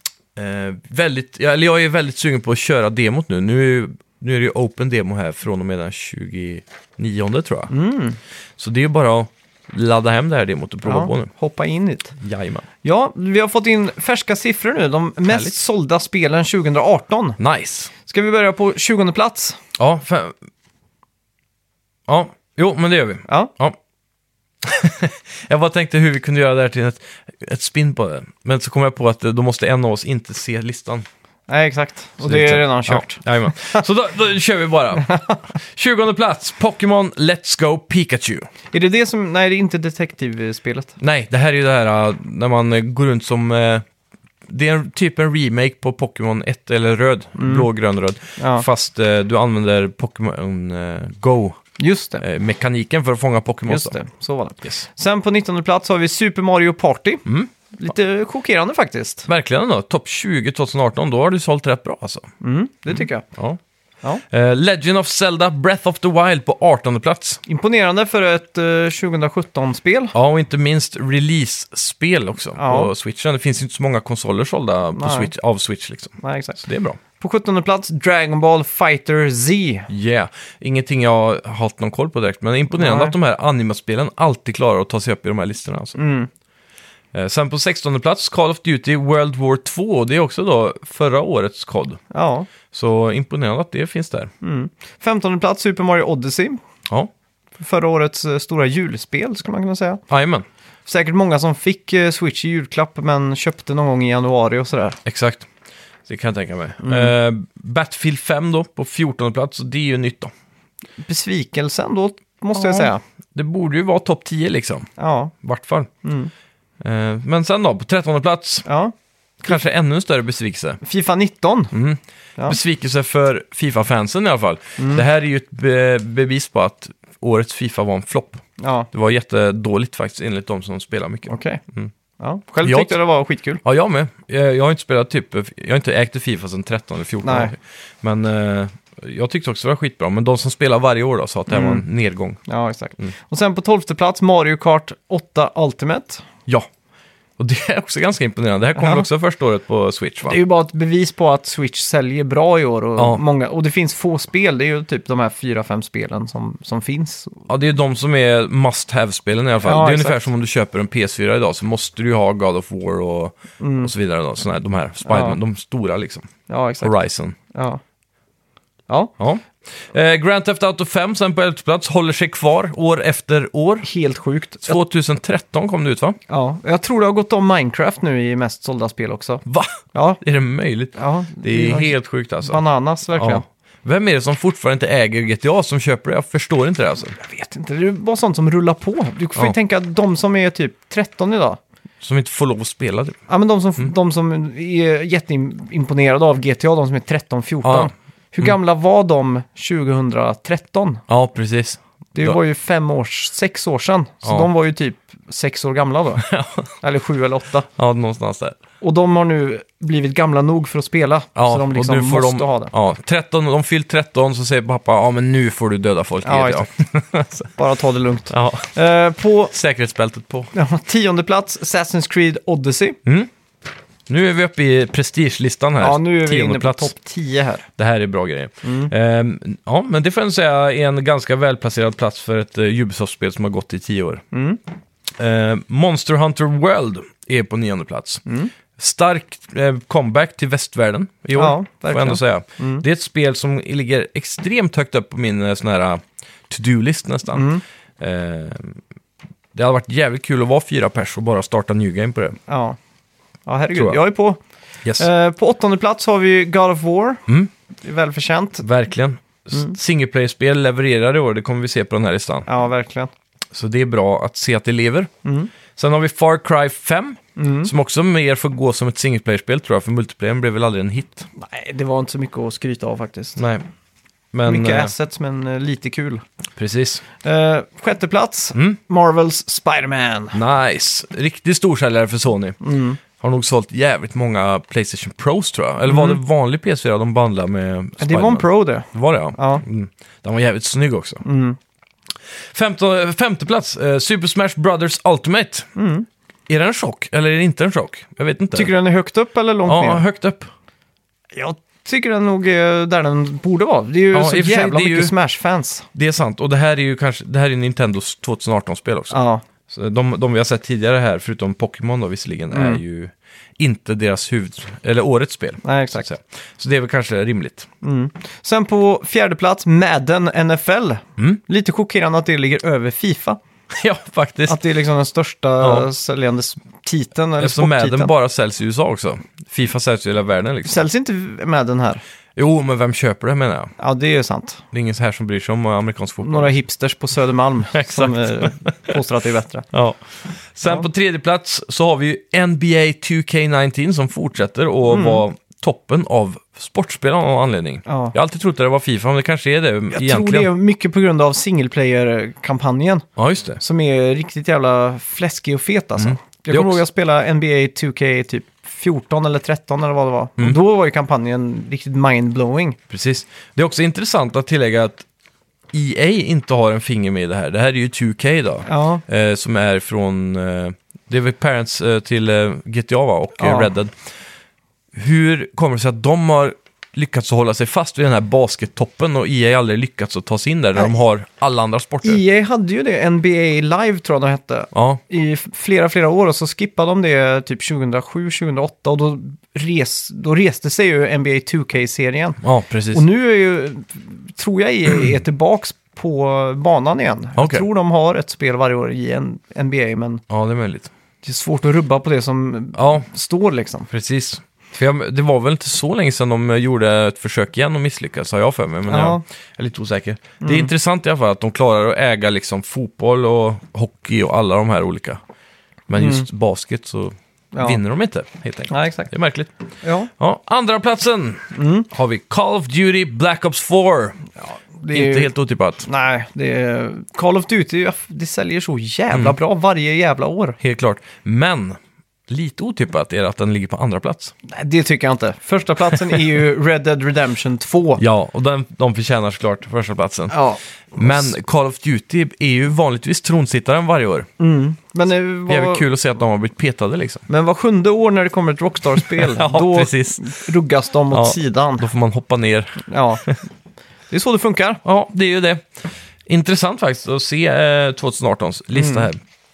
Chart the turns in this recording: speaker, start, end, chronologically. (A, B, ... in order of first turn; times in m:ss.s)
0:00.4-0:07.7 A
0:07.7-0:08.2 B
0:08.6-0:11.3 A
0:10.8-0:12.2 B
0:12.2-0:12.7 A
0:12.8-0:17.4 B
0:17.4-0:17.9 A
0:18.0-0:19.6 B
0:19.8-0:20.4 A
0:22.1-0:23.8 A
0:24.6-0:31.1 A
0:31.5-0:33.8 B
0:32.2-0:35.1 A
0:35.0-0:35.4 B
0:35.6-0:38.5 A
0:38.7-0:41.0 B
0:41.0-0:43.8 A
0:44.5-0:51.6 A
0:47.4-0:47.7 B
0:48.4-0:48.7 B
0:51.8-0:52.2 B
0:52.2-0:54.0 A
0:53.7-0:59.3 B
0:59.3-1:02.3 A
1:02.4-1:03.2 B
1:04.3-1:07.4 A
1:07.5-1:10.1 B
1:10.1-1:17.0 A
1:12.6-1:12.9 B
1:15.0-1:15.3 B
1:16.2-1:16.6 B
1:17.2-1:19.9 B
1:19.9-1:26.0 A
1:22.8-1:23.2 B
1:26.0-1:26.3 B
1:27.1-1:32.0 A
1:32.1-1:32.5 B
1:32.7-1:34.3 A
1:34.4-1:36.6 B
1:37.6-1:40.0 B
1:40.1-1:40.5 A
1:40.9-1:45.0 B
1:45.0-1:45.5 A
1:46.1-1:50.3 A
1:46.8-1:47.1 B
1:51.0-1:53.0 B
1:52.6-1:54.9 A
1:55.0-1:55.3 B
1:55.4-1:55.9 A
1:56.0-1:56.3 B
1:56.8-1:58.6 A
1:58.6-1:58.9 B
1:59.4-2:00.8 A
2:00.8-2:01.7 B
2:01.7-2:11.9 A
2:04.8-2:05.0 B
2:08.6-2:08.9 B
2:11.3-2:11.6 B
2:12.2-2:13.6 B
2:12.6-2:13.0 A
2:13.6-2:22.4 A
2:17.2-2:17.5 B
2:21.5-2:21.8 B
2:22.5-2:26.2 B
2:27.4-2:30.4 A
2:28.8-2:29.1 B
2:30.3-2:37.4 B
2:33.0-2:33.2 A
2:37.5-2:46.3 A
2:39.6-2:40.3 B
2:43.6-2:43.9 B
2:45.0-2:45.4 B
2:46.5-2:46.9 B
2:46.8-2:47.4 A
2:47.5-2:47.8 B
2:49.2-2:53.9 A
2:53.8-2:54.8 B
2:54.6-2:56.2 A
2:56.3-2:59.4 B
2:59.4-3:02.6 A
2:59.9-3:00.2 B
3:01.0-3:03.4 B
3:03.2-3:07.2 A
3:07.2-3:11.6 B
3:12.0-3:13.2 A
3:13.3-3:21.0 B
3:17.6-3:17.9 A
3:21.1-3:22.4 A
3:22.2-3:26.3 B
3:24.2-3:24.5 A
3:26.2-3:26.7 A
3:26.8-3:27.7 B
3:27.8-3:28.6 A
3:28.8-3:32.7 B
3:31.4-3:37.5 A
3:36.2-3:36.7 B
3:37.6-3:39.5 B
3:38.3-3:38.7 A
3:39.5-3:40.5 A
3:40.5-3:43.0 B
3:43.0-3:43.3 A
3:44.1-3:46.9 A
3:45.8-3:47.7 B
3:47.8-3:54.2 A
3:48.6-3:48.9 B
3:54.3-3:54.6 B
3:55.2-3:58.2 A
3:58.3-3:58.5 B
3:58.8-4:08.8 A
4:01.4-4:02.8 B
4:07.3-4:07.6 B
4:09.6-4:12.4 A
4:12.5-4:12.8 B
4:13.5-4:14.4 B
4:13.8-4:14.0 A
4:15.0-4:17.2 B
4:17.8-4:18.6 B
4:18.6-4:22.5 A
4:22.5-4:23.1 B
4:23.5-4:25.1 A
4:25.2-4:25.5 B
4:25.8-4:31.3 A
4:27.4-4:27.7 B
4:31.4-4:33.4 B
4:33.4-4:33.6 A
4:34.3-4:34.9 A
4:34.4-4:36.2 B
4:36.6-4:37.0 A
4:37.2-4:40.4 B
4:40.3-4:42.6 A
4:42.6-4:43.0 B
4:43.2-4:51.2 A
4:45.9-4:46.2 B
4:48.0-4:49.6 B
4:51.2-4:51.6 B
4:52.5-4:55.7 A
4:55.8-4:56.1 B
4:56.5-4:58.7 A
4:58.5-5:00.0 B
4:59.6-5:00.5 A
5:01.3-5:05.9 B
5:04.1-5:05.1 A
5:06.0-5:17.7 A
5:09.1-5:09.4 B
5:12.5-5:12.8 B
5:15.6-5:16.1 B
5:17.8-5:23.4 B
5:23.7-5:24.6 A
5:24.5-5:28.1 B
5:25.6-5:25.9 A
5:27.4-5:30.8 A
5:30.6-5:32.0 B
5:32.4-5:33.7 A
5:33.8-5:34.6 B
5:34.7-5:36.5 A
5:36.2-5:39.7 B
5:37.7-5:39.0 A
5:39.7-5:50.5 A
5:44.9-5:45.2 B
5:47.9-5:48.1 B
5:49.9-5:53.1 B
5:53.2-5:53.6 A
5:53.6-6:02.8 B
5:56.0-5:56.8 A
6:02.9-6:05.0 A
6:05.7-6:13.9 A
6:08.7-6:09.0 B
6:13.4-6:13.7 B
6:14.9-6:22.2 A
6:22.0-6:32.4 B
6:24.7-6:25.0 A
6:32.4-6:33.0 A
6:32.9-6:40.2 B
6:37.4-6:37.6 A
6:40.3-6:40.9 A
6:41.2-6:43.9 B
6:42.8-6:43.1 A
6:43.9-6:55.2 A
6:48.9-6:49.2 B
6:50.4-6:50.7 B
6:55.9-6:59.5 A
6:56.0-6:56.3 B
6:57.5-6:57.8 B
6:58.7-6:59.1 B
6:59.8-7:00.1 B
7:00.2-7:04.2 A
7:01.5-7:01.9 B
7:04.4-7:05.3 B
7:04.9-7:05.9 A
7:05.8-7:10.6 B
7:10.6-7:14.3 A
7:14.5-7:18.0 B
7:18.0-7:20.4 A
7:20.3-7:21.3 B
7:21.0-7:24.3 A
7:24.4-7:25.9 B
7:25.5-7:27.2 A
7:27.3-7:31.9 B
7:29.0-7:30.4 A
7:31.1-7:33.4 A
7:32.8-7:33.4 B
7:34.1-7:34.8 B
7:34.8-7:39.2 A
7:38.7-7:39.1 B